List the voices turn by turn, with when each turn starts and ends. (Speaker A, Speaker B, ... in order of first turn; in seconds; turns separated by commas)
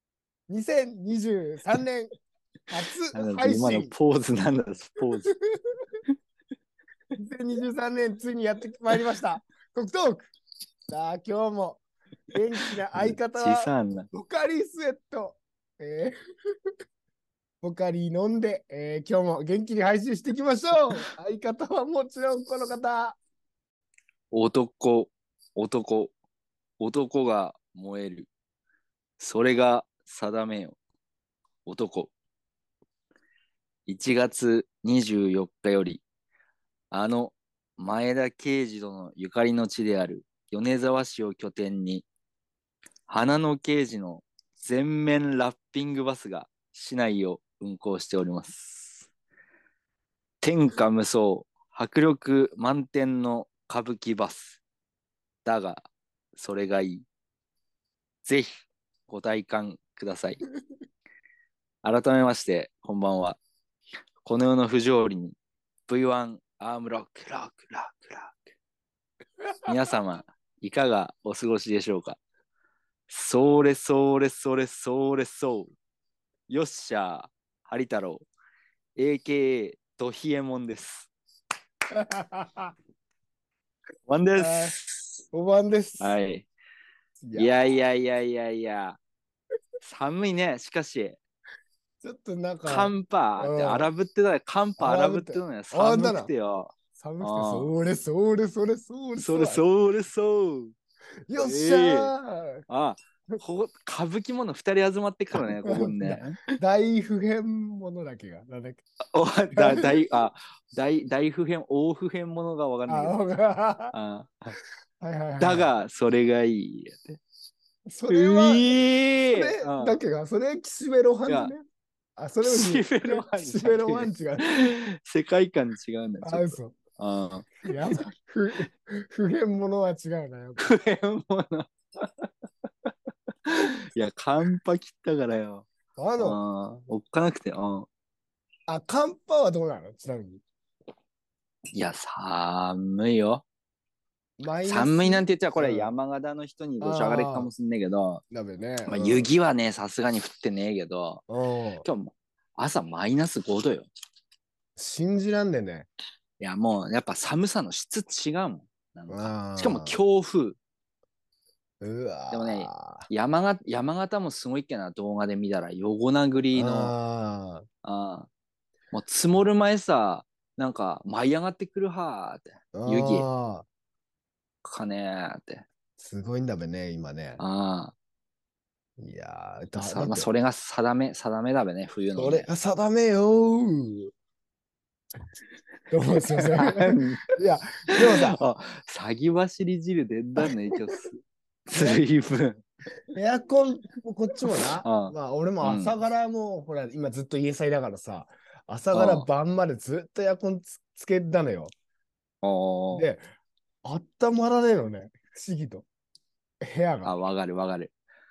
Speaker A: 0.5-2.1, Speaker A: 2.7-3.9, Speaker B: 3.1-5.3, Speaker A: 7.2-10.3, Speaker A: 10.9-16.1, Speaker B: 12.6-14.1, Speaker A: 17.6-23.2, Speaker B: 24.3-26.1, Speaker B: 26.8-28.3, Speaker B: 29.2-30.8, Speaker B: 31.6-32.1, Speaker B: 33.9-36.0, Speaker B: 36.9-42.1, Speaker B: 43.1-49.1, Speaker B: 50.4-54.6, Speaker B: 55.4-57.0, Speaker B: 58.2-58.5, Speaker B: 59.1-60.4, Speaker B: 61.8-63.4, Speaker B: 64.2-65.4, Speaker B: 65.9-68.5, Speaker B: 69.7-72.2, Speaker B: 73.1-75.7, Speaker B: 76.5-78.2, Speaker B: 79.0-81.1, Speaker A: 81.9-82.7, Speaker B: 84.1-85.2, Speaker A: 84.4-84.7, Speaker A: 85.3-86.2, Speaker B: 86.0-86.5, Speaker A: 87.2-87.8, Speaker B: 87.3-89.0, Speaker B: 89.8-91.2, Speaker A: 92.0-93.9, Speaker B: 92.6-97.7, Speaker A: 94.8-96.3, Speaker A: 97.0-99.6, Speaker B: 99.2-100.7, Speaker A: 101.3-102.6, Speaker B: 101.3-102.1, Speaker B: 102.7-106.5, Speaker A: 105.3-108.8, Speaker B: 109.1-113.2, Speaker A: 109.5-109.9, Speaker A: 112.9-113.9, Speaker B: 113.9-114.5, Speaker A: 115.0-115.7, Speaker B: 115.4-117.2, Speaker A: 117.9-118.8, Speaker B: 118.1-120.0, Speaker A: 119.3-121.6, Speaker B: 121.3-121.5, Speaker A: 122.2-124.5, Speaker B: 122.4-127.7, Speaker A: 126.2-126.8, Speaker A: 127.6-130.6, Speaker B: 130.6-132.3, Speaker B: 133.4-135.7, Speaker A: 136.0-136.4, Speaker B: 136.2-137.9, Speaker A: 138.7-140.4, Speaker B: 141.7-143.4, Speaker A: 144.4-145.9, Speaker B: 144.7-148.2, Speaker A: 146.8-147.5, Speaker A: 148.3-149.3, Speaker B: 148.8-151.2, Speaker A: 151.3-151.8, Speaker B: 151.8-153.9, Speaker A: 154.8-155.9, Speaker B: 156.4-160.6, Speaker A: 159.1-160.0, Speaker A: 161.8-163.1, Speaker B: 162.3-166.9, Speaker A: 166.5-167.6, Speaker B: 167.8-168.3, Speaker B: 168.9-173.2, Speaker A: 172.7-173.6, Speaker B: 174.6-175.6, Speaker A: 176.0-177.4, Speaker B: 177.4-177.9, Speaker A: 179.0-180.3, Speaker B: 179.8-182.5, Speaker A: 182.2-184.1, Speaker A: 185.9-188.4, Speaker B: 186.3-187.3, Speaker B: 187.9-192.6, Speaker A: 191.7-192.0, Speaker A: 193.1-201.7, Speaker B: 194.8-196.0, Speaker B: 198.9-199.3, Speaker B: 202.4-203.1, Speaker A: 202.9-203.2, Speaker A: 203.8-205.8, Speaker A: 206.6-207.2, Speaker B: 207.0-207.9